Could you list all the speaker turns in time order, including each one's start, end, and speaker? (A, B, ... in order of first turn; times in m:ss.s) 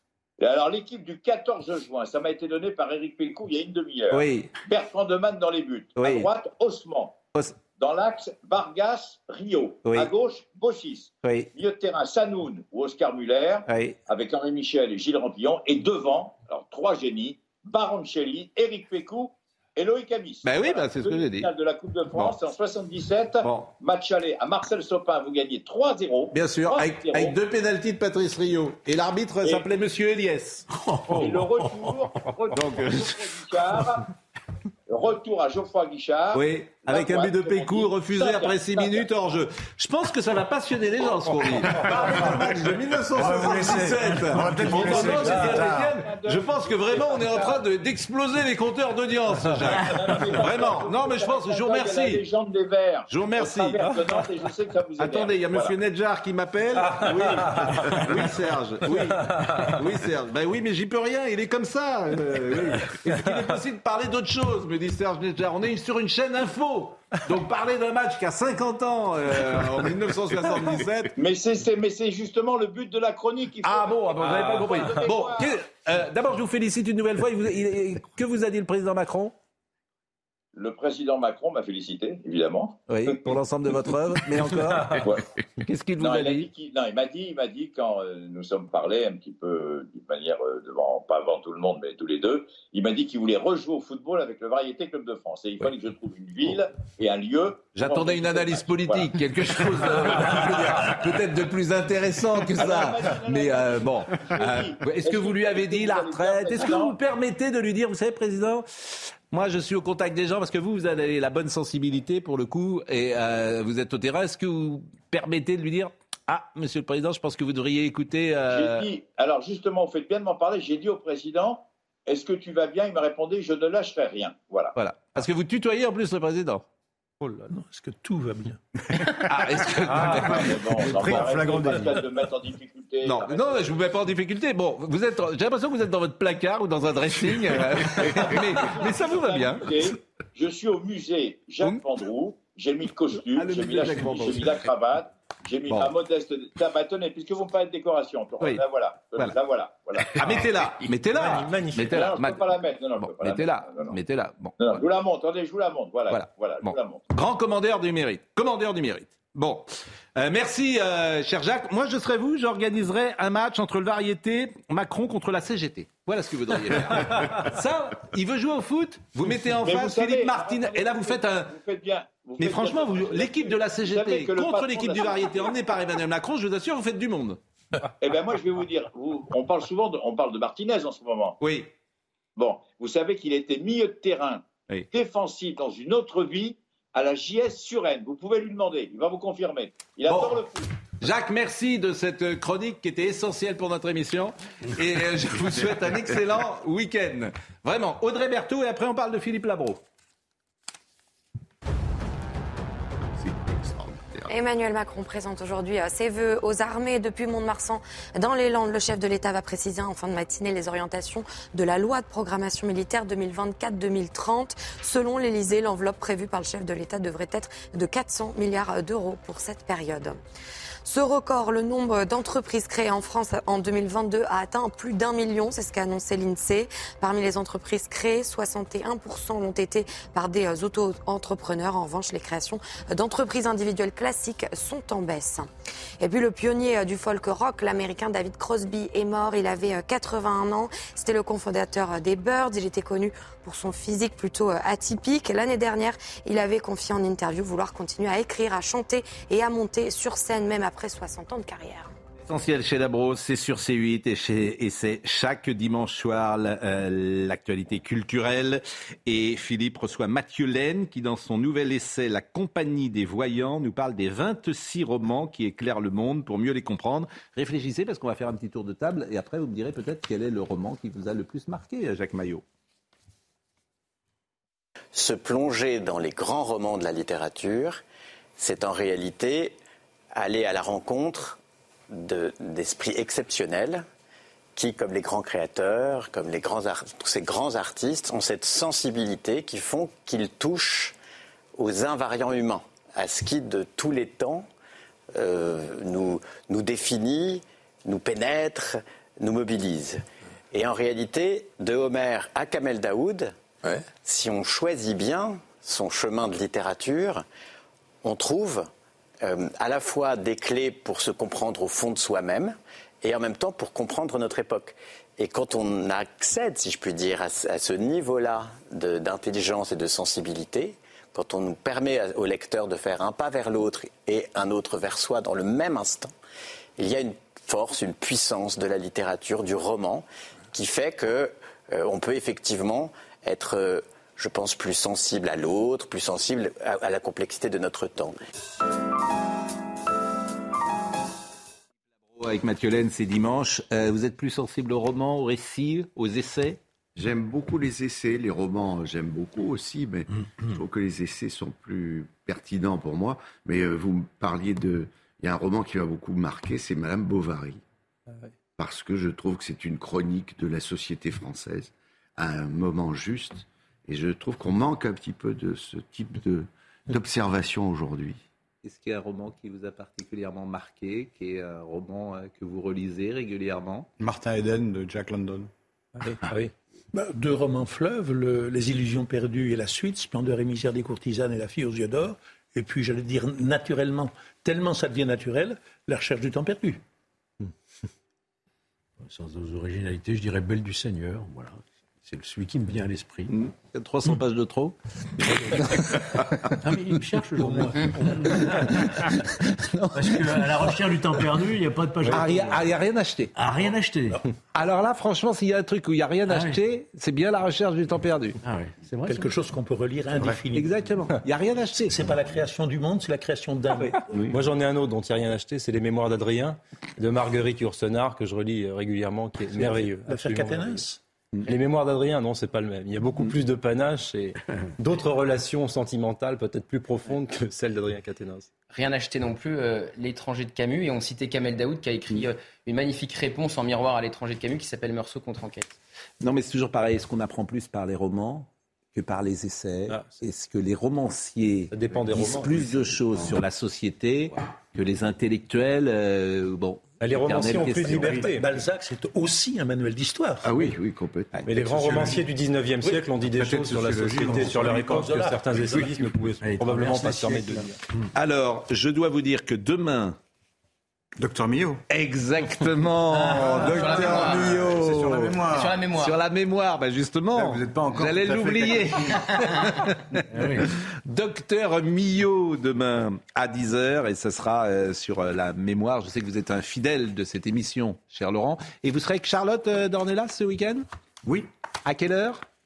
0:00.4-0:07.2 A
0:04.1-0:04.5 B
0:06.0-0:06.3 B
0:07.8-0:27.4 A
0:09.8-0:10.1 B
0:13.7-0:14.0 B
0:20.4-0:21.5 B
0:23.4-0:23.7 B
0:26.3-0:30.6 B
0:29.4-0:29.7 A
0:30.7-0:32.2 C
0:31.1-0:34.0 A
0:32.5-0:33.3 B
0:34.9-0:39.0 A
0:36.3-0:52.2 B
0:41.1-0:41.6 A
0:43.1-0:45.9 D
0:44.7-0:47.7 A
0:49.7-0:55.7 A
0:53.1-0:54.2 B
0:55.0-1:11.1 B
0:57.1-0:57.8 E
1:11.2-1:15.5 A
1:13.6-1:19.3 B
1:20.5-1:23.4 A
1:22.9-1:25.1 B
1:24.9-1:25.2 A
1:25.6-1:26.5 B
1:26.0-1:39.2 A
1:37.7-1:58.9 B
1:39.8-1:40.8 A
1:42.5-1:47.0 A
1:58.5-2:04.7 A
2:04.8-2:06.6 B
2:07.4-2:08.6 F
2:09.3-2:11.4 B
2:09.9-2:10.4 E
2:10.1-2:13.8 A
2:10.4-2:12.1 D
2:13.0-2:19.7 B
2:18.0-2:30.7 A
2:23.1-2:24.6 B
2:30.1-2:34.8 B
2:31.1-2:32.1 E
2:31.8-2:34.0 A
2:34.6-2:37.0 A
2:36.1-2:51.5 B
2:49.5-2:55.5 A
2:52.4-2:57.4 B
2:58.0-3:01.4 A
3:01.4-3:01.7 B
3:02.4-3:10.7 A
3:10.1-3:10.4 B
3:11.0-3:19.8 B
3:23.2-3:24.3 G
3:24.3-3:40.2 H
3:40.8-3:55.5 H
3:56.0-4:11.9 H
4:12.3-4:32.4 B
4:34.9-4:37.8 I
4:38.4-4:39.6 I
4:40.1-4:41.4 I
4:41.9-4:43.8 I
4:44.6-4:50.9 I
4:51.6-4:54.5 I
4:55.1-5:00.0 I
5:00.5-5:03.3 I
5:04.0-5:07.2 I
5:08.0-5:08.6 I
5:09.2-5:26.1 I
5:26.8-5:38.2 I
5:42.2-5:46.6 B
5:46.9-5:57.6 G
5:58.6-6:08.2 G
6:08.6-6:13.9 B
6:14.0-6:15.5 D
6:16.0-6:16.5 E
6:16.9-6:26.8 F
6:29.0-6:33.5 C
6:33.3-6:35.9 B
6:36.6-6:38.8 C
6:38.0-6:40.7 B
6:39.9-6:42.7 C
6:42.0-6:43.3 B
6:43.4-6:44.2 C
6:44.5-6:48.4 B
6:46.3-6:46.6 C
6:48.4-6:49.5 C
6:49.0-6:50.7 F
6:50.5-6:52.1 B
6:51.9-6:54.3 F
6:54.3-7:00.9 E
6:59.6-7:01.0 F
7:01.4-7:08.5 E
7:08.7-7:15.7 J
7:16.2-7:28.3 B
7:21.7-7:23.0 E
7:27.0-7:28.5 E
7:27.9-7:30.8 F
7:30.4-7:31.4 G
7:31.4-7:37.8 E
7:31.7-7:32.2 D
7:33.4-7:34.8 D
7:34.2-7:37.5 F
7:36.4-7:38.0 C
7:38.1-7:40.2 B
7:41.2-7:41.8 D
7:41.9-7:45.4 B
7:43.4-7:45.8 D
7:43.8-7:44.5 J
7:45.5-7:46.2 J
7:46.0-7:49.8 B
7:47.3-7:49.2 D
7:50.3-7:50.7 C
7:50.7-8:00.8 B
8:01.8-8:02.4 B